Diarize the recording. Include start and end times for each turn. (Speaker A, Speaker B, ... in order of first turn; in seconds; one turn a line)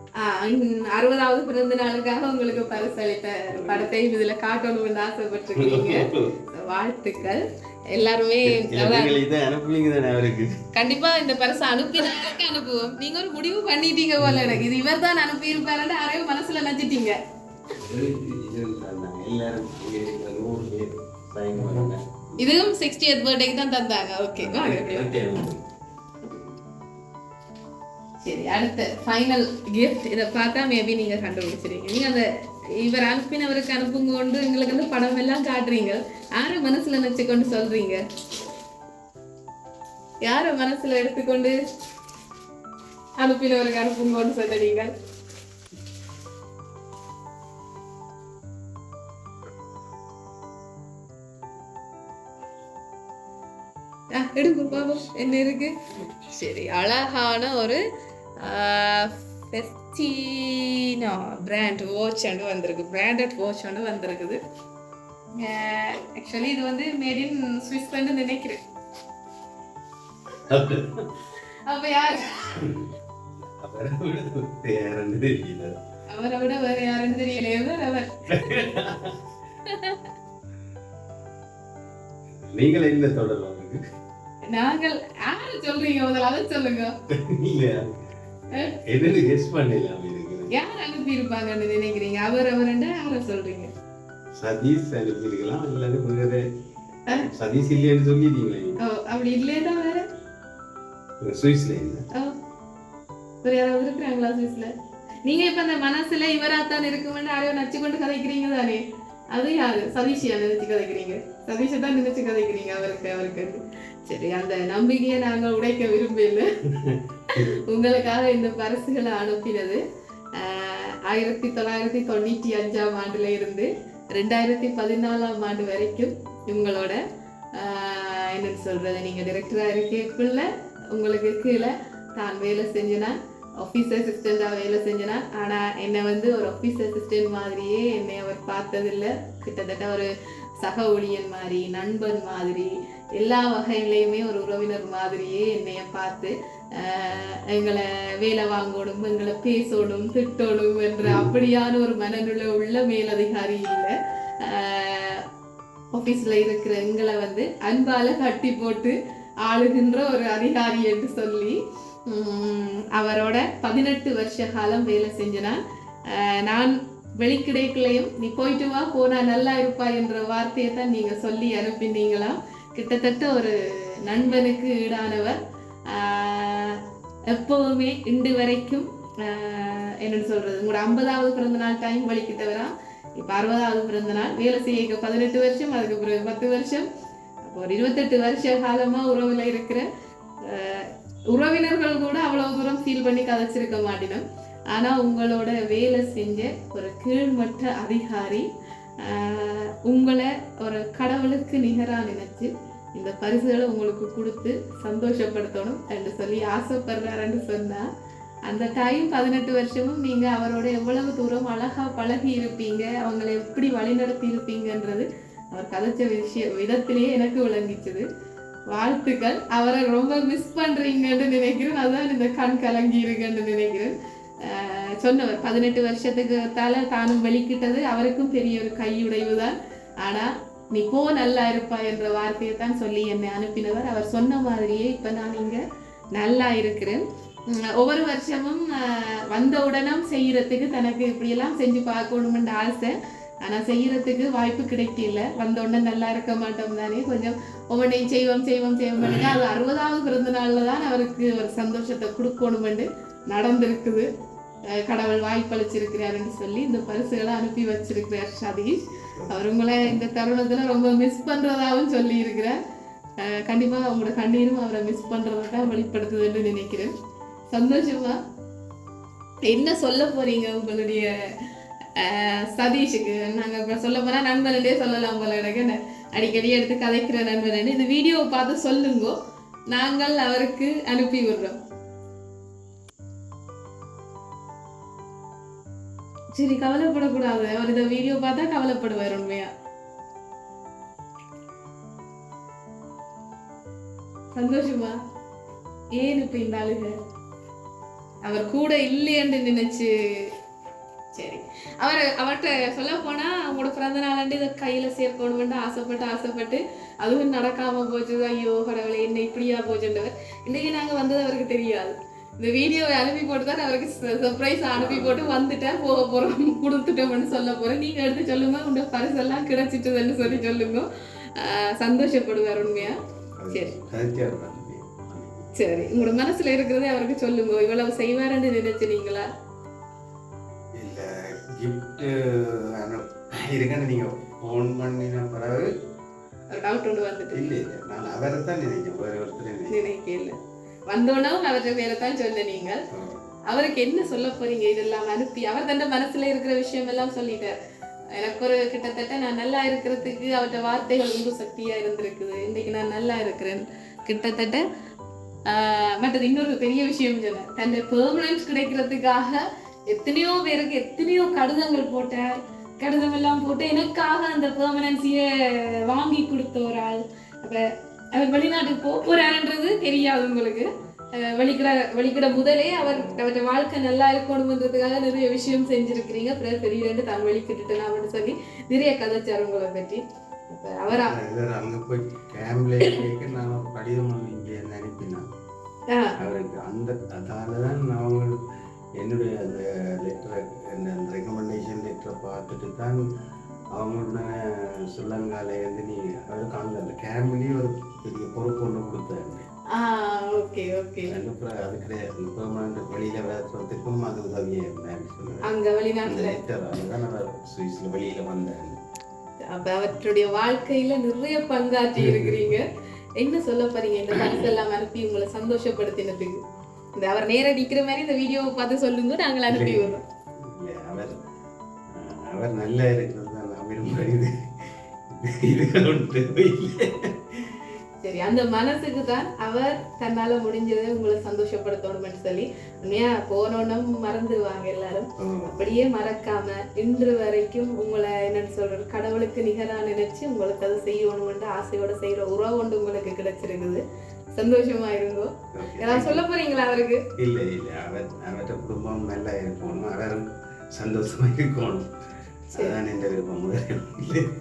Speaker A: 0.2-9.2
Speaker B: 2.5-2.9
Speaker B: 3.5-3.9
Speaker B: 5.5-6.3
Speaker B: 8.4-10.5
Speaker A: 10.7-17.2
Speaker B: 14.2-14.6
Speaker B: 17.8-22.4
Speaker A: 22.4-25.2
Speaker B: 24.4-25.6
Speaker A: 28.2-32.2
Speaker A: 32.8-38.0
Speaker A: 40.2-41.5
Speaker A: 43.2-44.9
Speaker A: 54.1-57.8
Speaker A: 58.4-64.4
Speaker A: 65.4-68.6
Speaker B: 70.5-71.1
Speaker A: 71.7-72.6
Speaker B: 72.5-72.9
Speaker B: 73.5-75.7
Speaker A: 76.1-78.6
Speaker B: 78.3-79.2
Speaker A: 79.7-80.1
Speaker B: 82.5-83.8
Speaker A: 84.5-86.9
Speaker B: 87.1-87.9
Speaker B: 88.5-90.5
Speaker A: 90.5-93.7
Speaker B: 94.3-96.4
Speaker B: 97.1-98.8
Speaker A: 98.8-100.0
Speaker B: 101.2-102.0
Speaker A: 103.4-104.7
Speaker A: 105.2-108.8
Speaker A: 109.3-116.5
Speaker A: 117.3-119.8
Speaker A: 120.4-127.0
Speaker A: 127.6-140.1
Speaker A: 140.6-155.2
Speaker B: 151.0-151.3
Speaker A: 155.9-161.6
Speaker A: 162.1-165.6
Speaker A: 166.1-175.4
Speaker A: 175.9-186.9
Speaker A: 187.4-189.8
Speaker A: 190.5-198.5
Speaker A: 199.0-207.8
Speaker A: 208.5-218.1
Speaker A: 218.7-235.6
Speaker A: 236.1-254.1
Speaker B: 249.0-249.4
Speaker A: 254.7-262.6
Speaker A: 263.2-266.9
Speaker A: 267.5-268.2
Speaker A: 269.4-271.1
Speaker A: 272.0-279.1
Speaker A: 279.7-281.6
Speaker A: 286.3-289.5
Speaker A: 294.3-294.9
Speaker A: 295.9-296.9
Speaker A: 298.2-300.3
Speaker A: 301.1-323.0
Speaker B: 314.7-315.4
Speaker B: 323.3-325.7
Speaker A: 323.5-323.7
Speaker A: 325.6-329.2
Speaker B: 330.8-335.7
Speaker A: 336.5-337.5
Speaker B: 337.3-339.8
Speaker A: 339.7-340.4
Speaker A: 340.9-342.8
Speaker B: 342.9-343.2
Speaker A: 343.5-347.5
Speaker A: 348.1-354.6
Speaker A: 355.5-381.2
Speaker B: 380.9-385.2
Speaker A: 385.9-386.1
Speaker B: 386.2-388.3
Speaker B: 389.0-393.0
Speaker B: 393.7-399.4
Speaker A: 399.7-401.2
Speaker B: 401.0-405.4
Speaker A: 405.4-406.4
Speaker B: 406.1-408.8
Speaker A: 409.5-412.7
Speaker B: 411.9-412.6
Speaker A: 413.2-416.4
Speaker B: 414.1-414.6
Speaker A: 416.9-420.0
Speaker B: 419.5-419.9
Speaker B: 420.4-421.2
Speaker B: 421.9-424.3
Speaker B: 425.1-427.6
Speaker A: 428.0-443.8
Speaker B: 435.2-435.7
Speaker A: 444.4-447.0
Speaker B: 445.5-446.2
Speaker B: 447.2-451.9
Speaker B: 452.5-454.3